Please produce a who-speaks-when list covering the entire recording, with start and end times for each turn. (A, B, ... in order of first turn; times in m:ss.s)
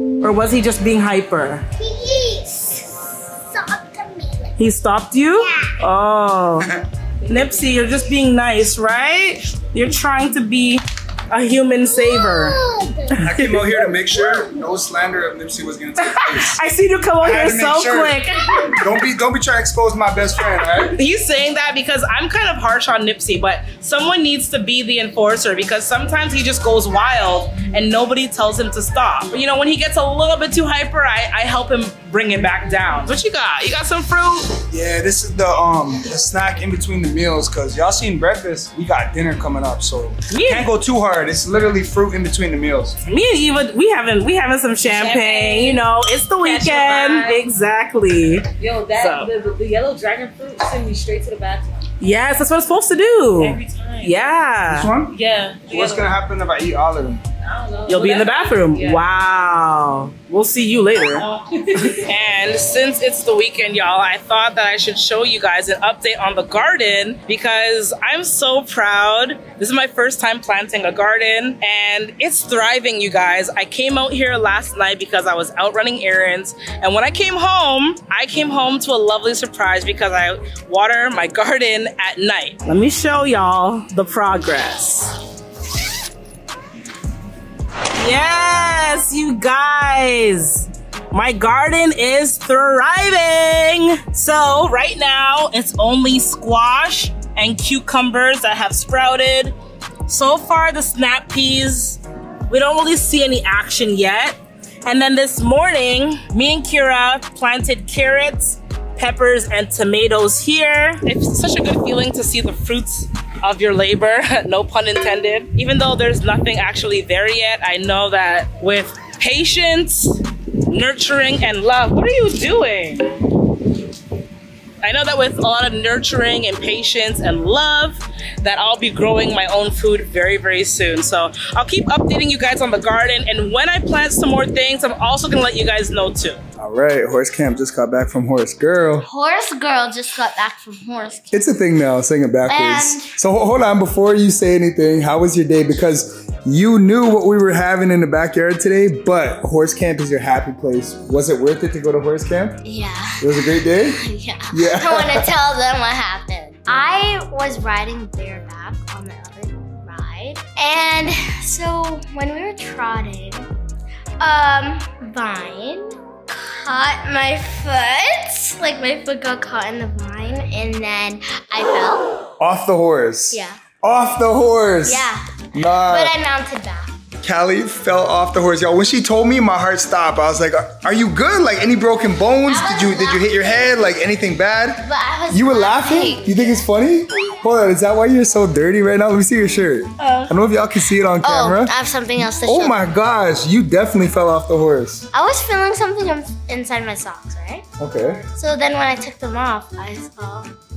0:00.2-0:01.6 A
0:01.8-0:04.5 B
0:04.6-0:12.6 A
0:05.4-0:05.7 B
0:11.9-0:13.2 B
0:13.1-0:13.6 A
0:13.2-0:16.6 C
0:16.0-0:18.8 A
0:17.2-0:18.2 C
0:18.7-0:21.0 C
0:20.8-0:34.6 A
0:34.7-0:43.0 C
0:40.3-0:40.7 A
0:43.1-0:48.5 A
0:44.8-0:45.8 D
0:46.4-0:47.4 D
0:48.6-0:51.9 D
0:49.0-0:49.3 A
0:52.0-0:54.9 A
0:53.4-0:54.2 D
0:54.7-0:57.2 C
0:55.0-0:56.1 D
0:57.4-0:59.0 D
0:57.9-1:25.2 A
1:01.2-1:02.0 D
1:28.0-1:39.5 A
1:40.1-2:03.1 A
2:04.8-2:16.4 A
2:16.6-2:19.1 C
2:19.0-2:21.3 B
2:21.3-2:32.6 C
2:22.5-2:23.1 B
2:32.6-2:43.5 B
2:33.2-2:34.0 C
2:34.5-2:35.3 C
2:44.2-2:52.2 B
2:52.4-2:56.1 C
2:53.3-2:53.6 B
2:54.8-2:55.2 B
2:55.7-2:56.9 B
2:57.2-3:11.7 C
3:02.5-3:03.9 B
3:04.8-3:06.6 B
3:10.0-3:10.3 B
3:11.2-3:12.8 B
3:12.4-3:15.0 C
3:15.1-3:17.6 B
3:17.8-3:18.2 C
3:18.4-3:20.5 B